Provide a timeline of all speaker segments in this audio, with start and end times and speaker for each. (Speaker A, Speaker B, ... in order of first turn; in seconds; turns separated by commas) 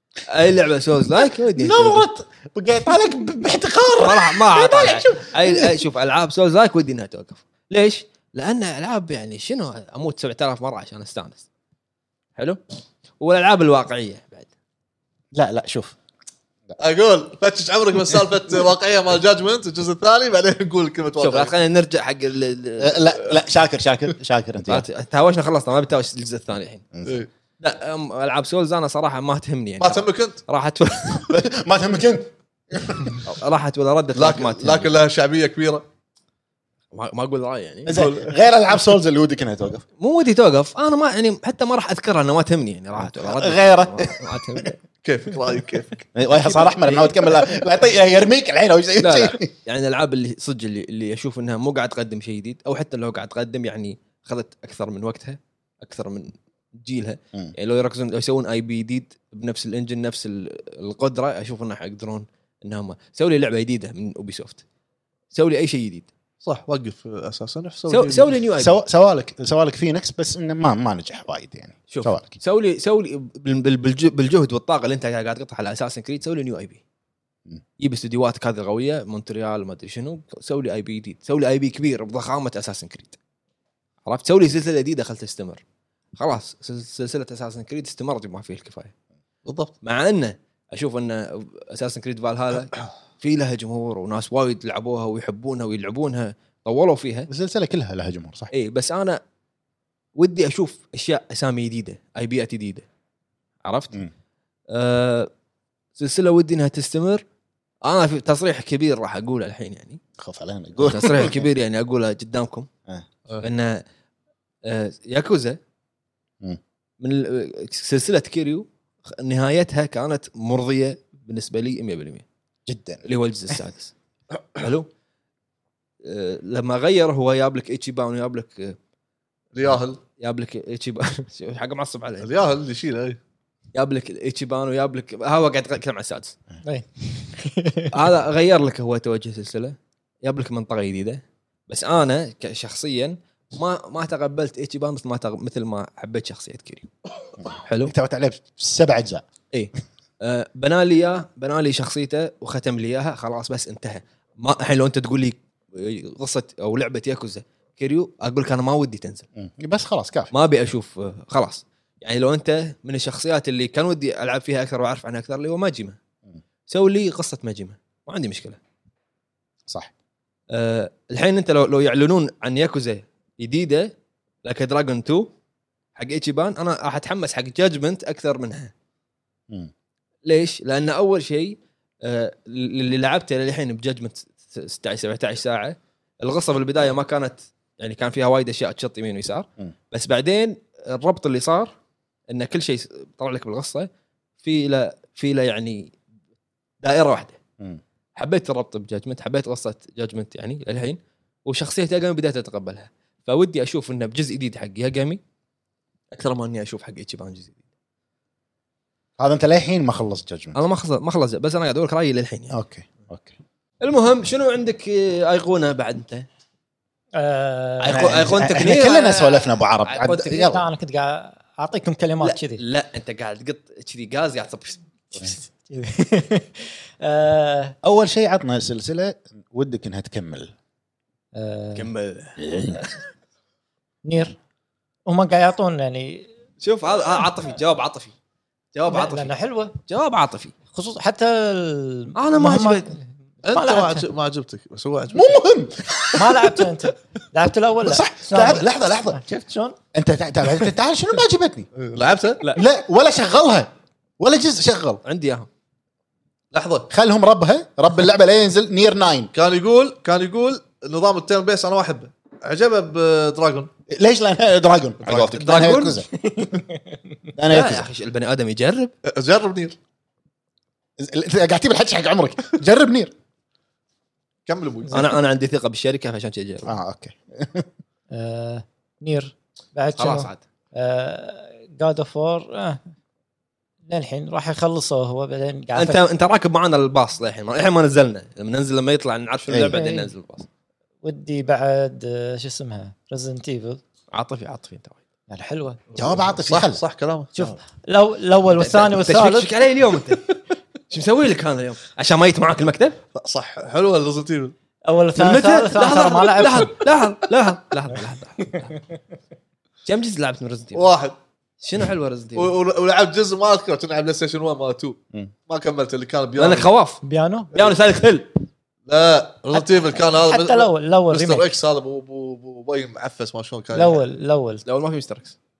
Speaker A: 0.3-2.0, Speaker B: 1.6-5.8, Speaker A: 4.0-11.4, Speaker A: 13.2-14.5, Speaker B: 15.3-15.9, Speaker C: 16.8-21.5, Speaker A: 21.2-23.3, Speaker B: 22.8-24.9, Speaker A: 24.7-26.8, Speaker A: 27.6-31.3, Speaker C: 29.8-30.4, Speaker B: 31.2-33.2, Speaker A: 33.2-34.9, Speaker C: 34.1-35.8, Speaker A: 36.9-38.1, Speaker B: 37.9-39.8, Speaker C: 37.9-38.3, Speaker A: 40.0-44.7, Speaker B: 43.0-44.7, Speaker C: 45.0-46.0, Speaker B: 46.1-49.5, Speaker A: 46.5-47.3, Speaker A: 49.0-64.6, Speaker A: 65.3-66.1, Speaker C: 66.4-68.3, Speaker A: 67.9-68.8, Speaker B: 68.6-72.3, Speaker A: 71.9-76.8, Speaker A: 77.8-83.2, Speaker A: 84.0-85.6, Speaker A: 86.2-88.9, Speaker C: 89.4-89.7, Speaker A: 89.8-97.3, Speaker B: 97.3-98.5, Speaker A: 98.5-99.2, Speaker A: 100.2-102.8, Speaker A: 103.6-104.0, Speaker A: 104.7-105.3, Speaker A: 106.0-107.2, Speaker A: 107.8-110.0, Speaker B: 110.2-111.5, Speaker A: 110.8-112.7, Speaker A: 113.4-113.8, Speaker A: 114.6-115.6, Speaker A: 117.0-122.2, Speaker B: 122.7-123.0, Speaker A: 123.0-123.9, Speaker A: 124.5-124.9, Speaker A: 126.0-128.8, Speaker C: 129.5-130.0, Speaker A: 130.2-132.3, Speaker C: 132.2-133.2, Speaker A: 133.7-136.3, Speaker D: 136.6-137.9, Speaker A: 137.9-146.9, Speaker A: 147.6-147.9, Speaker B: 147.8-149.2, Speaker A: 149.5-159.2, Speaker B: 159.3-160.3, Speaker A: 160.3-166.0, Speaker A: 166.7-168.6, Speaker B: 169.7-169.9, Speaker A: 170.5-173.9, Speaker A: 174.4-175.3, Speaker A: 175.9-178.7, Speaker A: 180.2-191.7, Speaker A: 192.3-193.9, Speaker A: 194.4-195.9, Speaker A: 196.8-197.4, Speaker A: 198.2-205.2, Speaker A: 206.1-207.6, Speaker B: 209.2-210.6, Speaker A: 210.5-212.5, Speaker B: 212.5-213.3, Speaker A: 213.8-216.2, Speaker D: 217.2-218.5, Speaker A: 217.8-220.5, Speaker B: 217.9-220.6, Speaker D: 220.3-222.6, Speaker A: 222.2-224.8, Speaker D: 225.2-227.8, Speaker B: 227.8-230.5, Speaker D: 231.3-231.9, Speaker A: 231.8-232.4, Speaker B: 232.4-232.8, Speaker D: 234.0-234.4, Speaker D: 235.1-236.3, Speaker A: 236.6-238.1, Speaker A: 238.7-240.5, Speaker D: 238.9-239.8, Speaker D: 240.7-244.0, Speaker A: 242.2-242.9, Speaker C: 243.4-245.4, Speaker B: 245.1-246.4, Speaker D: 246.1-249.8, Speaker B: 247.8-249.2, Speaker B: 249.9-251.7, Speaker C: 251.8-252.4, Speaker B: 252.6-255.0, Speaker A: 255.0-255.5, Speaker C: 256.5-256.9, Speaker B: 256.9-259.3, Speaker C: 259.3-263.7, Speaker B: 263.9-266.6, Speaker C: 265.1-265.4, Speaker A: 265.1-266.0, Speaker B: 267.4-267.9, Speaker A: 267.4-268.9, Speaker C: 269.1-269.8, Speaker B: 271.0-273.1, Speaker C: 274.4-275.1, Speaker A: 274.9-276.7, Speaker B: 276.6-277.7, Speaker D: 278.1-282.8, Speaker A: 280.0-280.4, Speaker D: 283.9-286.0, Speaker A: 285.7-290.5, Speaker B: 289.5-289.8, Speaker D: 289.7-290.1, Speaker D: 291.0-293.8, Speaker A: 294.1-295.0, Speaker B: 295.3-296.8, Speaker D: 295.5-295.8, Speaker C: 296.5-297.3, Speaker D: 297.3-299.5, Speaker A: 298.6-300.4, Speaker A: 300.9-303.0, Speaker C: 303.1-304.5, Speaker D: 304.8-306.8, Speaker A: 305.2-308.7, Speaker A: 309.8-310.9, Speaker C: 310.7-311.1, Speaker A: 311.6-312.5, Speaker C: 312.4-316.7, Speaker A: 316.4-317.0, Speaker D: 317.0-317.5, Speaker C: 317.5-317.8, Speaker A: 317.5-318.3, Speaker C: 318.9-324.0, Speaker D: 319.5-321.5, Speaker D: 323.7-324.6, Speaker A: 324.6-325.3